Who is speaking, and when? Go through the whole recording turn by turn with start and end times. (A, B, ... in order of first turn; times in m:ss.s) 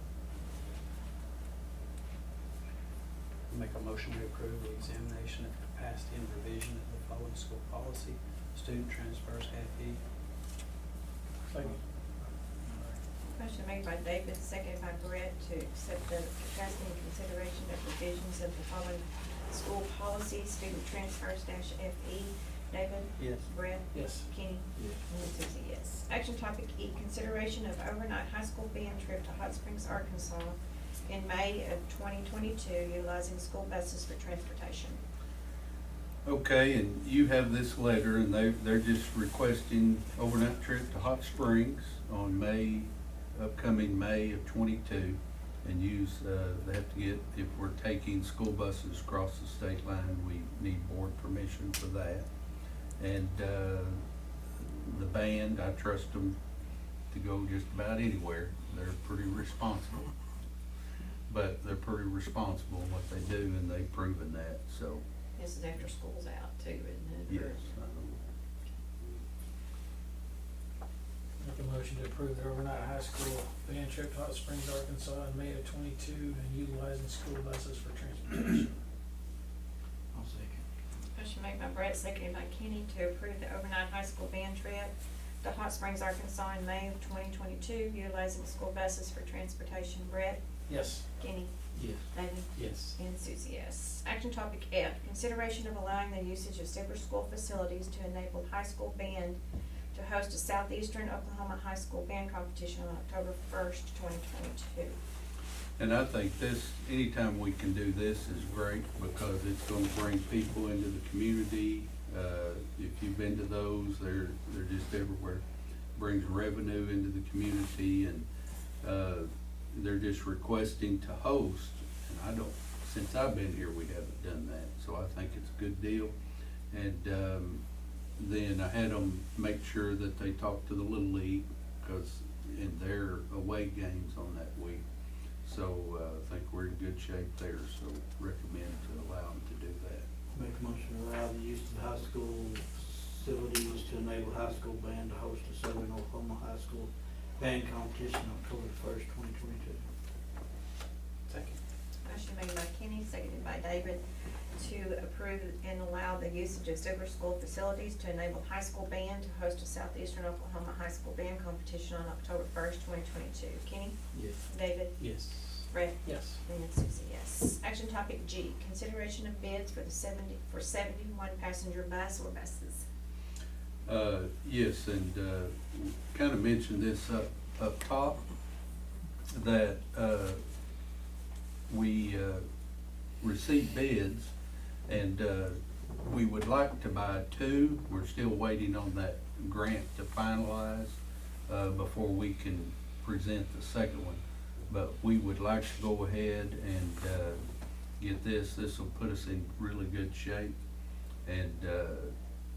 0:03.5-0:10.0 A
0:11.5-0:11.7 B
0:13.3-0:35.0 C
0:23.2-0:23.5 D
0:23.9-0:24.3 B
0:24.8-0:25.0 D
0:36.2-0:52.3 E
0:53.0-0:54.0 E
0:54.6-0:56.4 E
0:57.1-1:00.1 E
1:01.3-1:05.0 E
1:05.4-1:07.7 C
1:07.3-1:08.2 E
1:11.4-1:18.7 B
1:20.1-1:20.6 D
1:21.1-1:24.9 C
1:25.4-1:30.4 C
1:30.7-1:31.0 A
1:31.2-1:31.5 C
1:31.7-1:32.1 D
1:32.1-1:39.4 C
1:32.6-1:33.0 A
1:39.9-1:45.0 C
1:45.8-1:55.4 E
1:56.0-1:58.2 E
1:58.8-2:06.1 E
2:06.7-2:07.6 E
2:08.2-2:14.8 E
2:15.4-2:20.0 E
2:20.3-2:29.8 D
2:31.3-2:31.6 A
2:32.0-2:34.0 C
2:34.5-2:43.9 C
2:44.5-2:45.0 C
2:45.0-2:46.4 A
2:45.7-2:52.8 C
2:53.8-2:58.2 E
2:59.3-3:00.4 E
3:01.7-3:02.4 E
3:03.2-3:04.3 E
3:04.9-3:17.4 E
3:18.0-3:20.5 E
3:21.2-3:22.1 E